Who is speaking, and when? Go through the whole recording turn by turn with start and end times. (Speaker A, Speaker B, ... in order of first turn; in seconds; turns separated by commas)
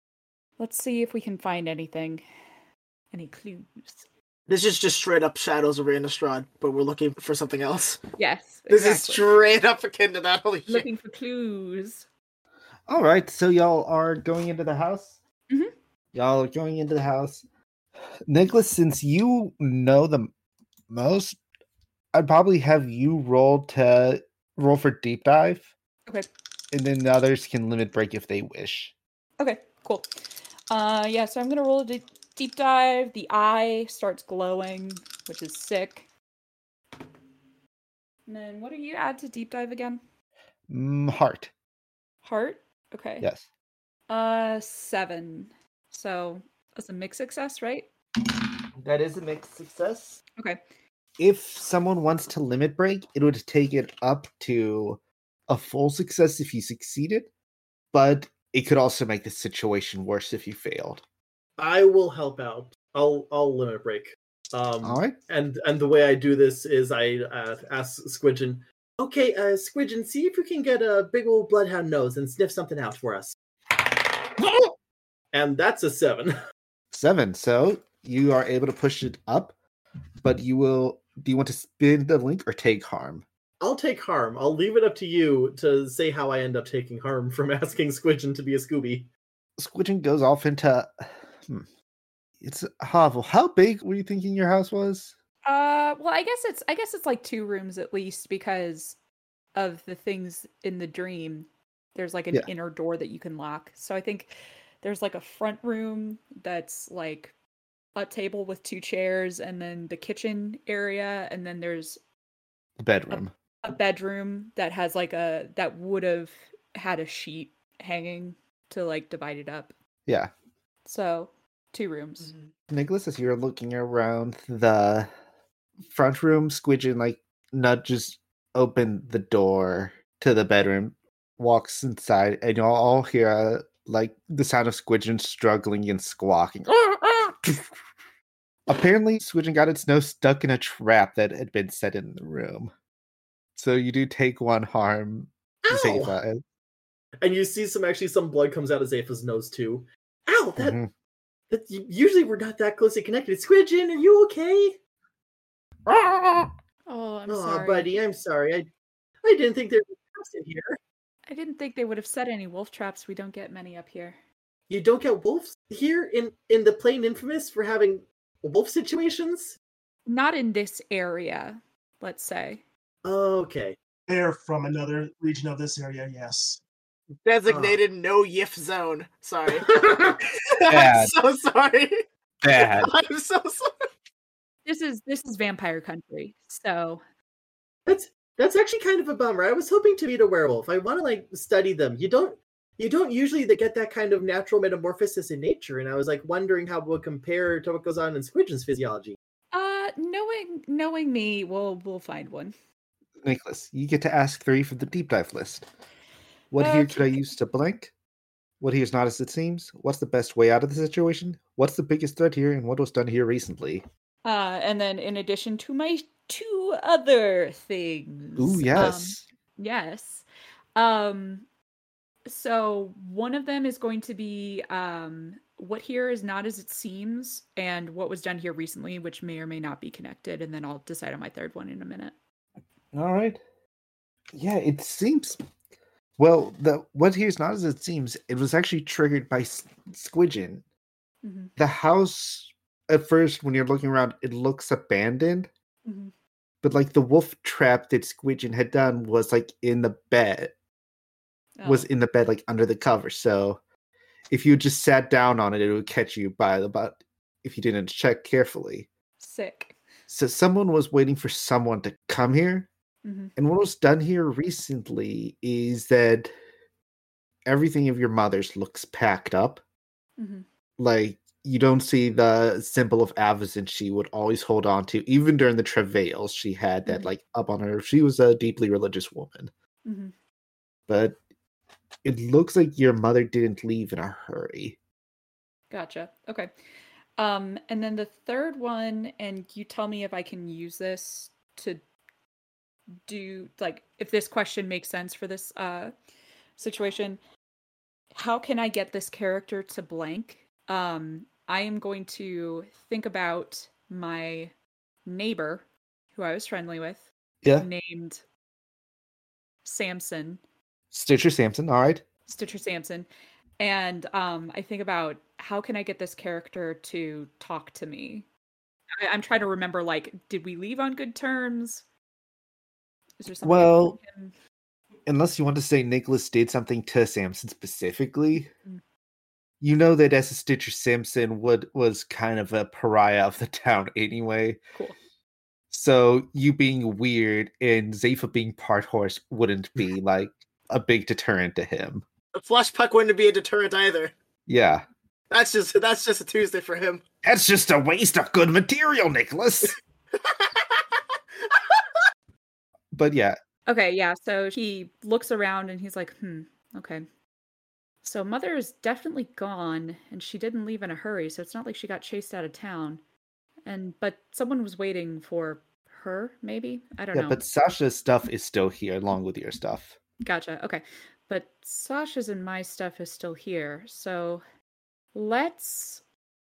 Speaker A: 0.6-2.2, Speaker A: 3.1-4.1, Speaker B: 4.5-8.0, Speaker A: 8.2-9.3, Speaker B: 8.7-10.9, Speaker A: 10.7-12.1, Speaker C: 12.9-15.2, Speaker C: 16.1-17.4, Speaker C: 18.3-20.3, Speaker C: 20.9-21.4, Speaker C: 22.1-25.7, Speaker C: 26.7-28.9, Speaker A: 29.4-30.1, Speaker A: 30.7-36.1, Speaker A: 38.3-40.0, Speaker C: 40.7-41.5, Speaker A: 42.2-43.3, Speaker A: 44.1-47.9, Speaker C: 48.8-50.2, Speaker C: 51.2-57.3, Speaker C: 57.9-61.0, Speaker D: 61.6-73.3, Speaker C: 64.8-65.2, Speaker D: 75.3-76.3, Speaker C: 76.9-79.5, Speaker C: 80.2-83.2, Speaker D: 83.6-89.1, Speaker C: 89.6-91.7, Speaker C: 92.4-95.2, Speaker A: 95.5-99.0, Speaker A: 99.5-107.3, Speaker A: 108.0-112.0, Speaker C: 112.8-113.3, Speaker A: 113.1-119.7, Speaker A: 120.8-122.3, Speaker C: 122.7-125.1, Speaker C: 125.9-137.7, Speaker C: 138.7-142.7, Speaker C: 143.6-146.4, Speaker D: 145.7-146.2, Speaker D: 147.2-150.8, Speaker C: 150.6-150.9, Speaker D: 151.5-154.8, Speaker C: 155.9-156.5, Speaker A: 156.9-157.9, Speaker D: 157.3-158.7, Speaker D: 159.2-160.8, Speaker A: 161.3-164.2, Speaker D: 164.7-169.6, Speaker A: 170.1-172.6, Speaker D: 173.0-173.8, Speaker E: 174.1-176.6, Speaker B: 177.2-183.7, Speaker D: 177.5-177.8, Speaker D: 179.6-180.1, Speaker C: 180.7-181.1, Speaker C: 182.4-182.9, Speaker A: 184.7-187.0, Speaker D: 187.9-199.2, Speaker A: 199.5-202.5, Speaker C: 203.2-205.7, Speaker C: 206.5-207.9, Speaker A: 206.6-207.2, Speaker C: 208.6-213.8, Speaker A: 214.2-221.4, Speaker C: 218.4-219.2, Speaker A: 222.3-232.2, Speaker C: 232.9-233.4, Speaker C: 234.3-235.4, Speaker C: 236.2-240.6, Speaker A: 241.2-241.5, Speaker C: 241.6-245.5, Speaker A: 245.8-246.1, Speaker C: 246.6-250.6, Speaker A: 251.6-251.9, Speaker C: 251.7-253.6, Speaker C: 254.3-258.9, Speaker A: 259.2-259.8, Speaker C: 260.1-262.7, Speaker A: 263.0-263.3, Speaker C: 263.4-266.3, Speaker C: 267.5-269.6, Speaker A: 270.2-270.5, Speaker C: 270.8-279.5, Speaker A: 279.9-280.1, Speaker C: 280.9-281.2, Speaker C: 282.0-284.8, Speaker A: 285.7-286.5, Speaker A: 287.2-291.8, Speaker A: 293.1-295.9, Speaker A: 296.6-297.2, Speaker A: 298.1-304.5, Speaker A: 305.1-308.2, Speaker A: 309.6-310.4, Speaker C: 310.9-312.0, Speaker A: 312.3-313.1, Speaker A: 313.6-318.3, Speaker A: 319.0-321.9, Speaker A: 323.2-324.3, Speaker C: 323.4-324.0, Speaker C: 325.1-328.5, Speaker C: 329.6-334.6, Speaker C: 335.7-342.1, Speaker B: 342.4-344.1, Speaker C: 344.5-344.9, Speaker B: 345.3-347.0, Speaker C: 347.2-349.8, Speaker B: 350.2-350.8, Speaker C: 352.9-353.4, Speaker A: 353.7-357.1, Speaker A: 358.0-363.0, Speaker A: 363.7-367.4, Speaker C: 367.1-370.0, Speaker A: 370.2-374.4, Speaker A: 375.1-376.0